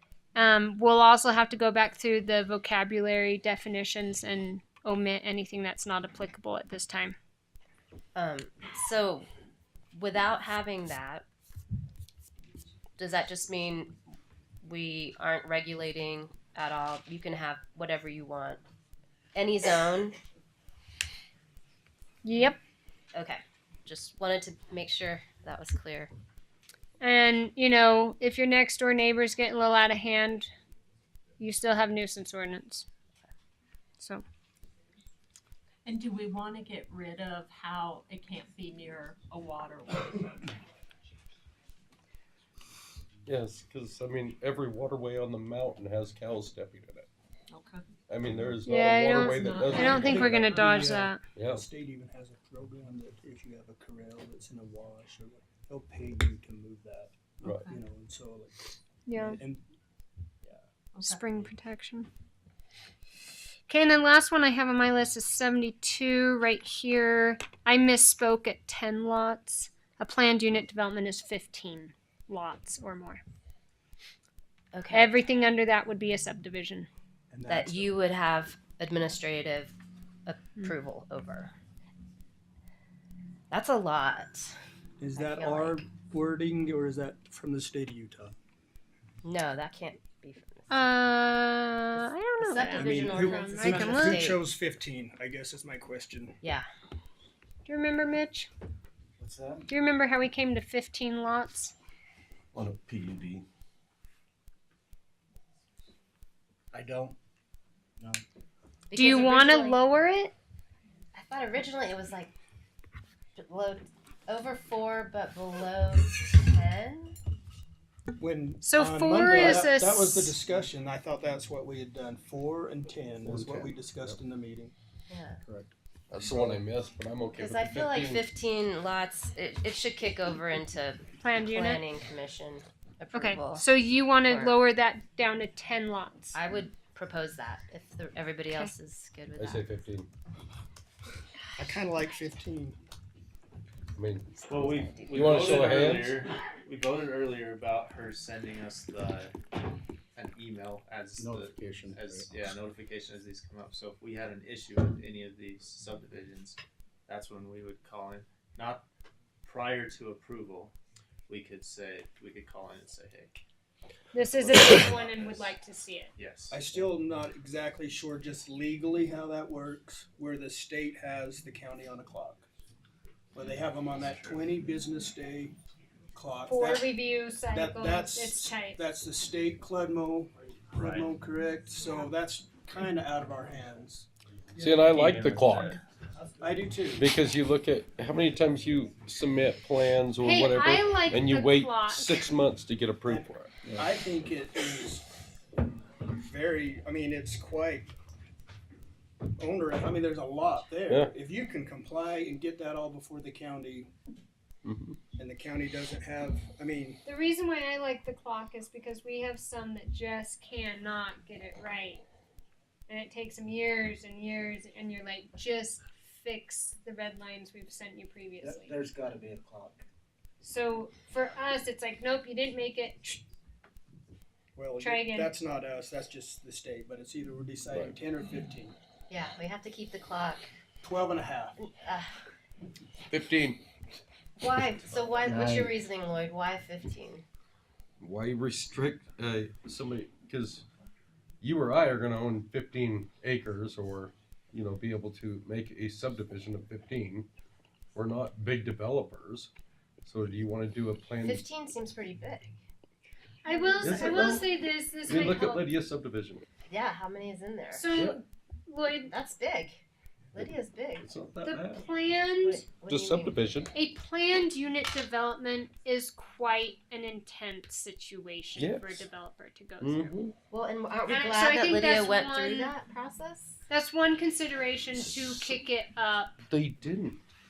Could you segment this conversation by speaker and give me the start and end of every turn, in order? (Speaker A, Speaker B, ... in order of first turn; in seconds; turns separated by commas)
Speaker A: 0.3-7.2, Speaker B: 8.1-9.3, Speaker B: 9.9-11.2, Speaker B: 13.0-13.9, Speaker B: 14.6-18.6, Speaker B: 19.3-20.2, Speaker A: 22.2-22.6, Speaker B: 23.1-26.1, Speaker A: 27.0-30.5, Speaker A: 31.4-32.8, Speaker C: 35.8-40.5, Speaker D: 43.2-47.1, Speaker C: 47.5-47.9, Speaker D: 48.1-50.8, Speaker A: 48.6-51.2, Speaker C: 49.2-50.8, Speaker E: 50.0-59.6, Speaker D: 51.3-51.6, Speaker C: 57.4-57.8, Speaker A: 59.1-59.4, Speaker C: 60.9-61.2, Speaker A: 61.0-62.1, Speaker A: 63.7-73.2, Speaker B: 74.7-75.2, Speaker A: 74.9-76.9, Speaker E: 77.3-77.9, Speaker B: 77.5-79.7, Speaker B: 80.2-81.5, Speaker B: 83.5-84.5, Speaker E: 85.0-88.3, Speaker B: 85.1-85.8, Speaker B: 89.2-90.8, Speaker A: 90.7-94.3, Speaker B: 92.4-94.4, Speaker E: 92.6-96.4, Speaker A: 97.7-98.5, Speaker F: 99.2-99.7, Speaker A: 99.7-101.7, Speaker D: 102.5-103.4, Speaker F: 106.7-107.2, Speaker F: 108.0-108.2, Speaker B: 108.9-109.8, Speaker A: 108.9-110.3, Speaker B: 111.1-112.3, Speaker B: 113.4-117.1, Speaker E: 118.2-124.7, Speaker A: 118.6-120.3, Speaker D: 123.3-123.5, Speaker F: 123.3-123.7, Speaker B: 125.1-125.4, Speaker D: 126.1-128.2, Speaker E: 126.2-126.6, Speaker B: 127.3-133.7, Speaker A: 131.2-131.8, Speaker A: 133.1-136.4, Speaker B: 134.2-134.6, Speaker B: 136.3-139.7, Speaker D: 139.4-140.1, Speaker E: 141.6-142.8, Speaker D: 143.9-144.3, Speaker G: 144.5-149.3, Speaker B: 144.5-145.8, Speaker D: 145.1-146.2, Speaker G: 150.1-158.8, Speaker F: 151.2-152.4, Speaker G: 159.4-160.7, Speaker G: 161.3-163.4, Speaker A: 164.1-166.1, Speaker G: 164.3-165.5, Speaker G: 166.2-166.6, Speaker E: 166.5-172.5, Speaker E: 173.3-175.6, Speaker G: 173.5-174.5, Speaker E: 176.1-176.9, Speaker A: 176.5-178.8, Speaker E: 177.5-184.1, Speaker G: 180.8-181.1, Speaker D: 184.6-185.8, Speaker G: 184.7-185.8, Speaker E: 186.4-187.1, Speaker D: 186.9-193.5, Speaker A: 190.2-192.3, Speaker E: 193.1-195.1, Speaker F: 193.6-194.2, Speaker E: 196.1-197.9, Speaker E: 199.4-203.9, Speaker D: 200.9-201.1, Speaker D: 204.6-205.0, Speaker E: 205.2-207.0, Speaker A: 207.0-212.0, Speaker A: 212.9-218.7, Speaker F: 218.4-219.8, Speaker A: 220.4-223.2, Speaker E: 224.6-228.8, Speaker A: 224.8-225.3, Speaker B: 229.1-230.5, Speaker E: 230.8-231.6, Speaker B: 231.6-232.1, Speaker D: 233.1-233.6, Speaker B: 234.4-237.2, Speaker F: 235.2-235.8, Speaker D: 238.0-240.7, Speaker D: 241.4-247.3, Speaker D: 247.9-249.5, Speaker D: 250.0-251.4, Speaker B: 251.2-252.6, Speaker A: 253.4-255.7, Speaker B: 253.4-254.4, Speaker D: 253.8-254.5, Speaker D: 255.1-256.4, Speaker B: 256.7-258.0, Speaker A: 257.7-259.1, Speaker D: 257.9-258.2, Speaker B: 259.1-261.1, Speaker D: 261.0-261.9, Speaker A: 261.4-262.6, Speaker B: 262.4-263.4, Speaker D: 262.9-263.7, Speaker A: 263.7-270.2, Speaker D: 268.6-269.1, Speaker D: 269.8-270.3, Speaker B: 270.5-273.6, Speaker A: 271.1-272.7, Speaker A: 273.7-276.3, Speaker D: 274.9-275.5, Speaker D: 276.4-277.2